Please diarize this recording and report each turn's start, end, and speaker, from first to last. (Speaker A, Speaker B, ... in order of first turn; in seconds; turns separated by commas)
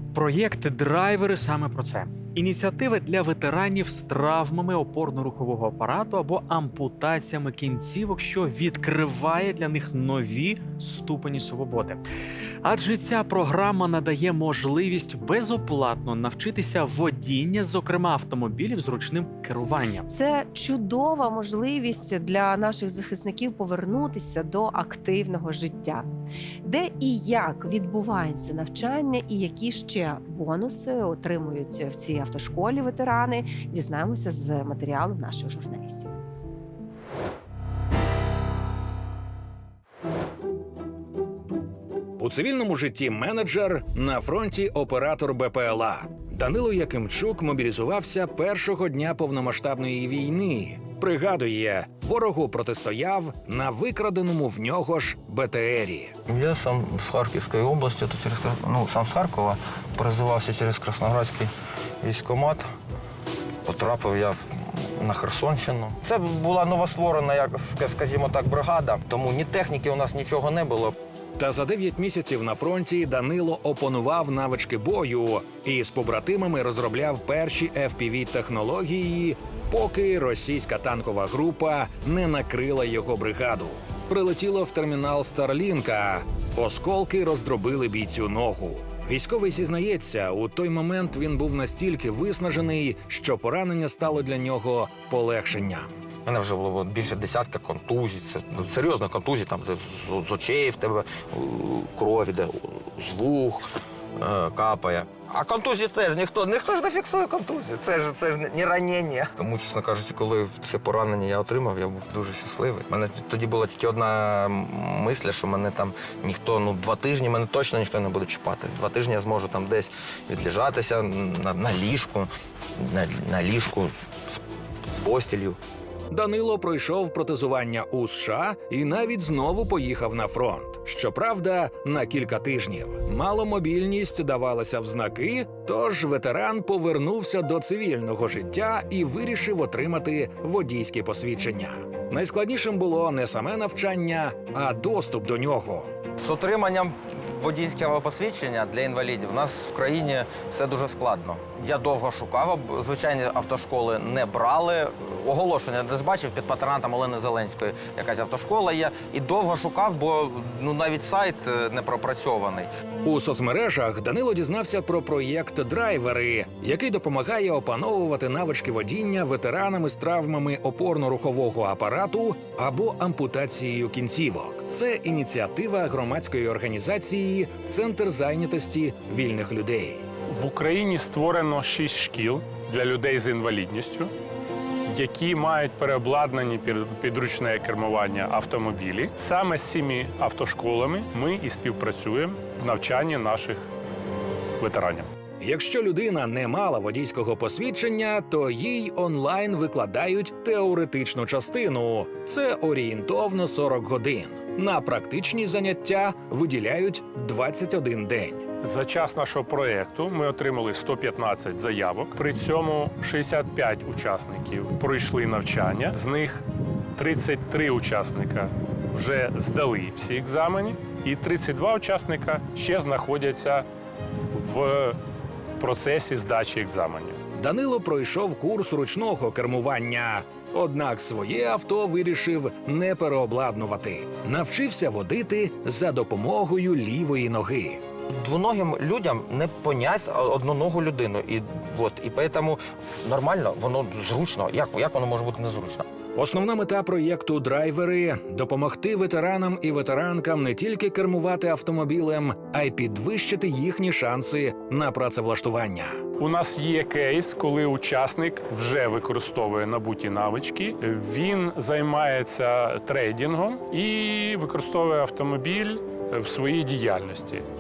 Speaker A: 0.1-12.1, Speaker A: 12.6-20.1, Speaker B: 20.1-26.1, Speaker B: 26.6-36.2, Speaker C: 42.2-56.1, Speaker D: 56.3-61.5, Speaker D: 62.0-62.6, Speaker D: 63.6-71.0, Speaker C: 71.4-79.2, Speaker C: 79.8-95.8, Speaker D: 96.3-103.6, Speaker D: 104.2-124.4, Speaker D: 124.9-125.6, Speaker C: 126.1-145.9, Speaker D: 146.2-162.7, Speaker C: 163.1-179.9, Speaker E: 180.3-184.1, Speaker E: 184.9-193.7, Speaker E: 194.6-195.1, Speaker C: 195.5-208.3, Speaker E: 208.6-216.4, Speaker E: 217.0-223.7, Speaker E: 224.3-225.0, Speaker E: 225.6-227.2, Speaker C: 227.6-230.1, Speaker C: 230.6-237.8, Speaker D: 238.1-245.9, Speaker C: 246.3-255.8, Speaker E: 256.2-267.4